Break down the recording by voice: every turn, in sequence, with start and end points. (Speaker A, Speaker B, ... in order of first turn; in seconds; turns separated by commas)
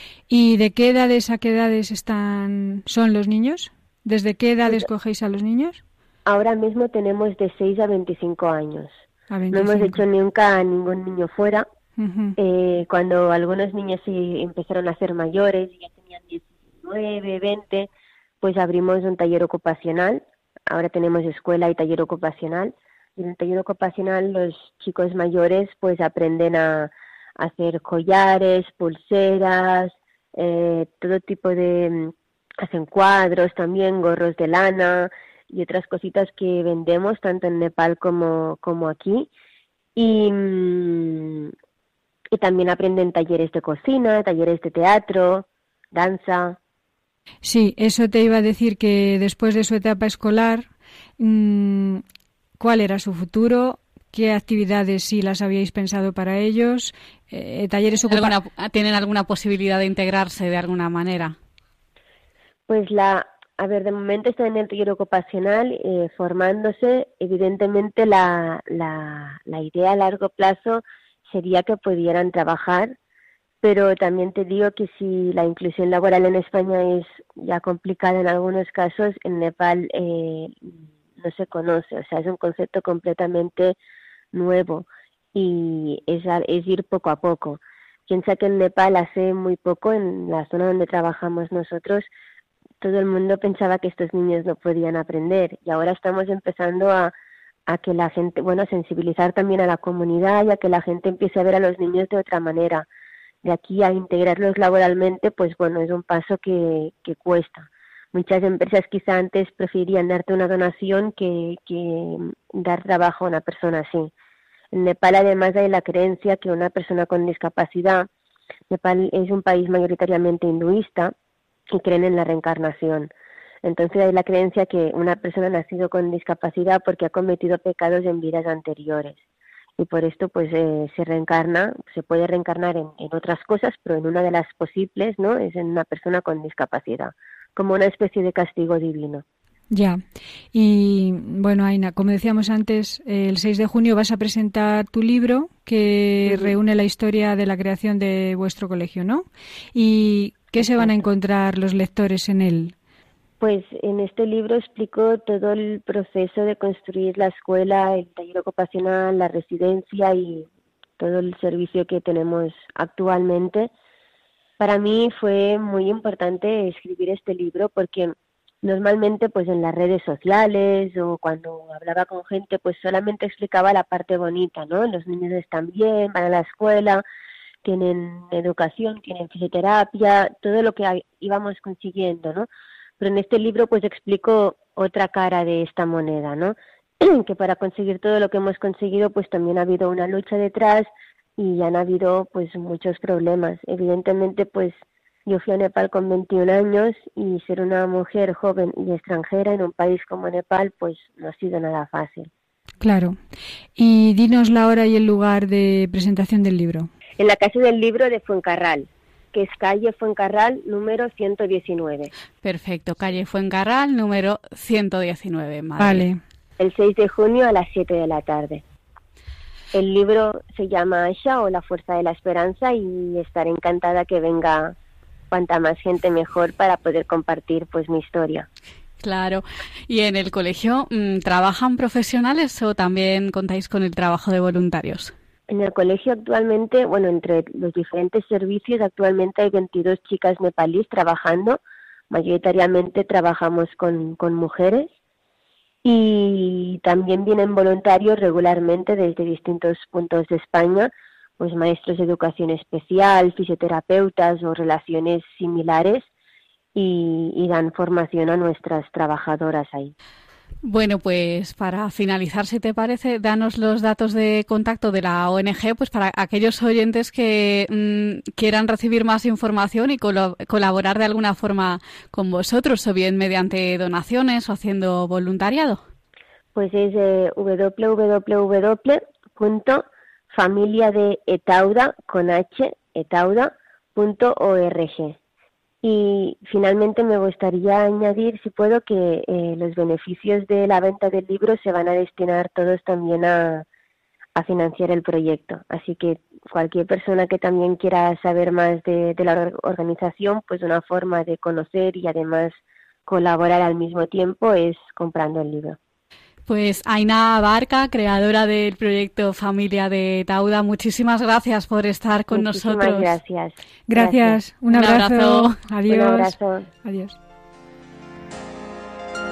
Speaker A: 0.3-5.8, Speaker B: 6.3-8.9, Speaker A: 9.3-10.0, Speaker B: 9.5-11.7, Speaker A: 12.0-12.3, Speaker B: 12.4-17.9, Speaker B: 18.4-39.3, Speaker B: 40.0-41.5, Speaker B: 42.3-46.6, Speaker A: 47.4-50.7, Speaker A: 51.2-52.0, Speaker A: 52.6-58.4, Speaker C: 58.1-61.4, Speaker B: 62.7-72.9, Speaker B: 73.6-83.8, Speaker B: 84.3-92.1, Speaker B: 92.8-97.1, Speaker B: 97.7-102.9, Speaker B: 103.4-114.1, Speaker B: 114.7-118.1, Speaker B: 118.7-121.1, Speaker B: 121.7-123.1, Speaker B: 123.6-129.2, Speaker B: 129.8-139.2, Speaker A: 139.7-140.0, Speaker A: 140.5-152.7, Speaker B: 146.2-146.6, Speaker B: 150.6-151.0, Speaker B: 153.4-160.5, Speaker B: 161.0-163.7, Speaker B: 164.6-177.0, Speaker B: 177.6-182.5, Speaker B: 183.0-202.3, Speaker A: 202.8-203.2, Speaker A: 203.8-206.9, Speaker B: 207.2-212.1, Speaker C: 212.4-216.1, Speaker A: 215.8-216.2, Speaker B: 216.6-218.6, Speaker B: 219.7-224.8, Speaker B: 225.3-228.5, Speaker C: 229.0-235.1, Speaker B: 235.5-241.6, Speaker B: 242.1-244.9, Speaker B: 245.8-256.1, Speaker B: 256.8-259.9, Speaker C: 260.6-275.8, Speaker B: 276.6-285.2, Speaker B: 285.8-293.6, Speaker B: 294.4-305.8, Speaker C: 306.5-313.2, Speaker B: 312.3-314.4, Speaker A: 313.9-317.2, Speaker C: 314.7-315.6, Speaker B: 315.9-316.7